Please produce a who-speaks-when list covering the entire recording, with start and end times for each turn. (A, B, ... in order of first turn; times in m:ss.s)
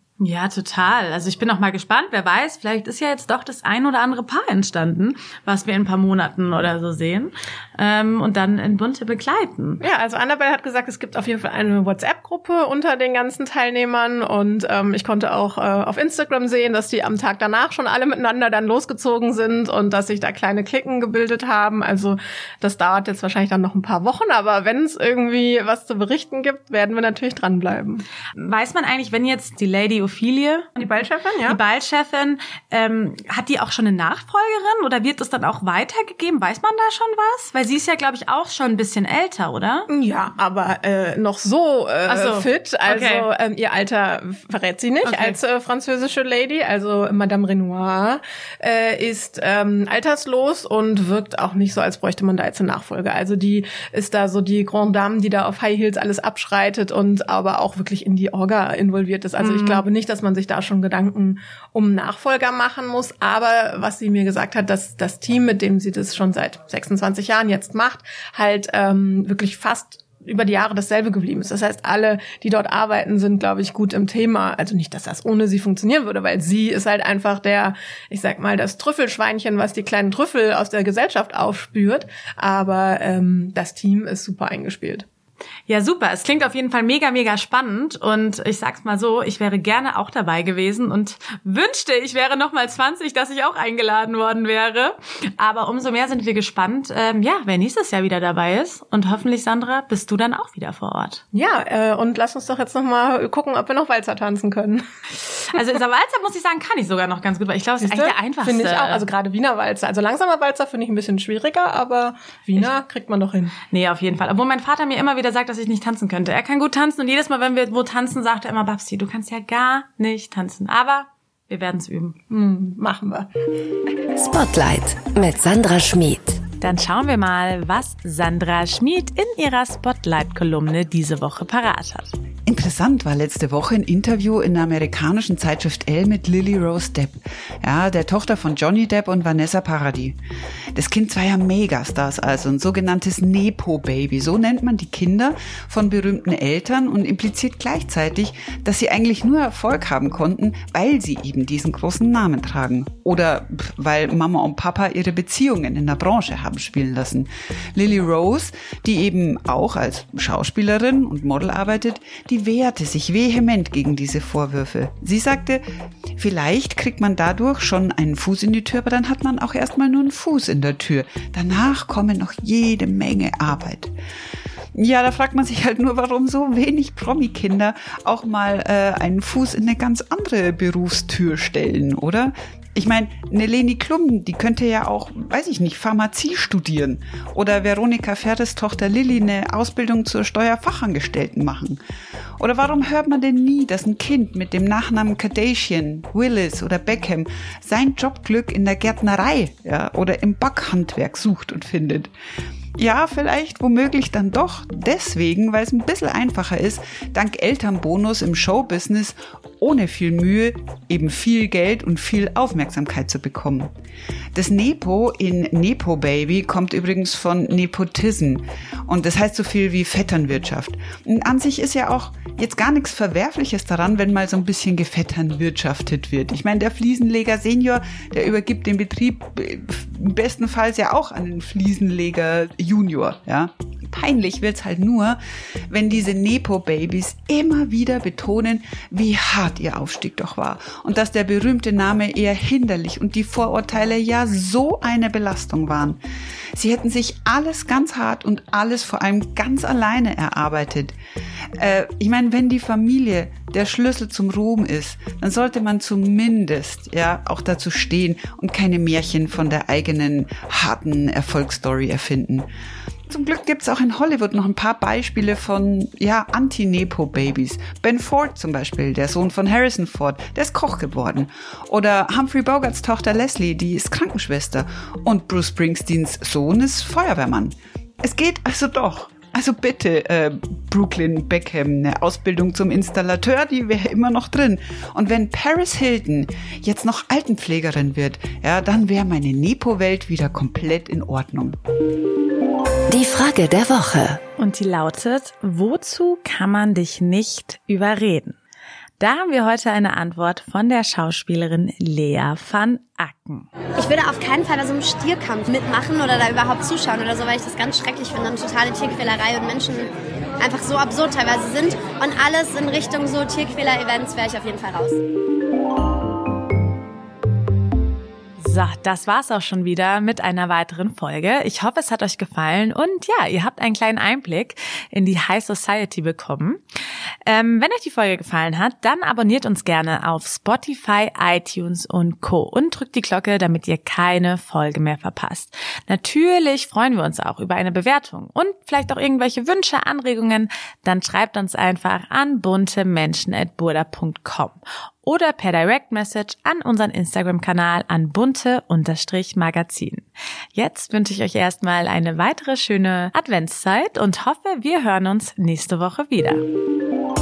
0:00.2-0:09.8 A
0:09.8-0:28.0 B
0:28.4-0:30.8 A
0:30.8-0:31.6 B
0:31.4-0:39.9 A
0:39.9-1:25.0 B
0:42.1-0:43.3 A
0:45.0-0:45.4 A
0:59.4-0:59.8 A
1:25.7-1:41.2 A
1:41.3-1:44.8 B
1:45.4-1:49.0 A
1:47.8-1:53.5 B
1:53.7-2:02.2 A
2:02.3-2:03.3 B
2:04.1-2:06.4 C
2:06.6-2:12.1 A
2:12.4-2:20.2 D
2:20.7-2:45.6 D
2:46.2-2:53.9 D
2:54.7-3:11.8 D
3:12.4-3:22.1 D
3:22.8-3:33.7 D
3:34.3-3:55.2 D
3:55.7-4:06.0 D
4:06.5-4:11.0 D
4:11.6-4:22.5 D
4:23.1-4:51.6 D
4:52.9-4:54.2 C
4:54.4-4:58.4 A
4:59.0-5:03.5 A
5:03.8-5:15.0 E
5:18.4-5:26.6 A
5:27.2-5:56.4 A